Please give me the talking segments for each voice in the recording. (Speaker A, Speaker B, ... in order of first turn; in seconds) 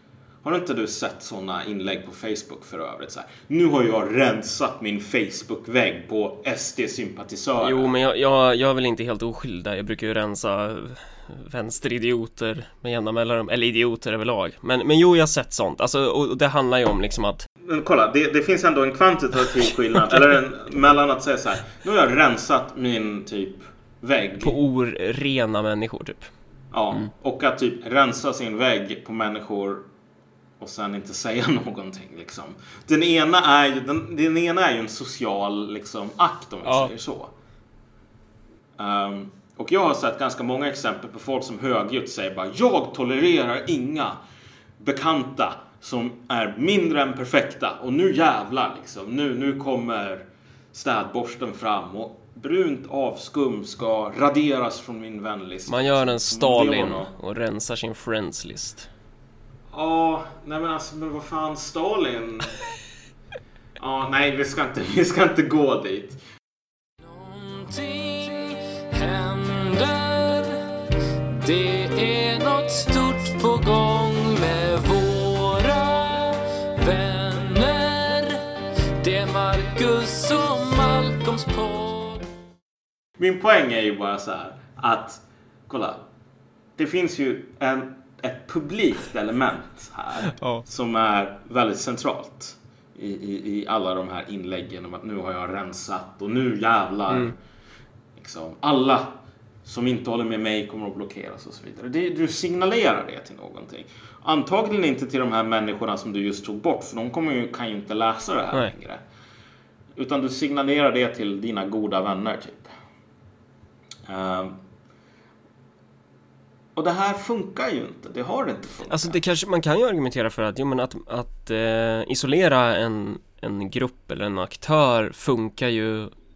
Speaker A: 0.4-7.9, 17.6-24.6, 26.7-29.9, 30.6-37.3, 38.8-44.2, 44.8-57.1, 59.7-62.6, 63.8-66.2, 83.2-86.0, 86.8-97.3, 98.2-109.0, 110.0-112.7, 114.1-114.6, 116.8-119.2
Speaker B: 7.6-17.5, 24.4-26.3, 36.6-36.9, 55.7-58.9, 90.3-90.6, 118.9-126.1
Speaker C: 67.0-70.7, 71.4-78.5, 79.0-82.3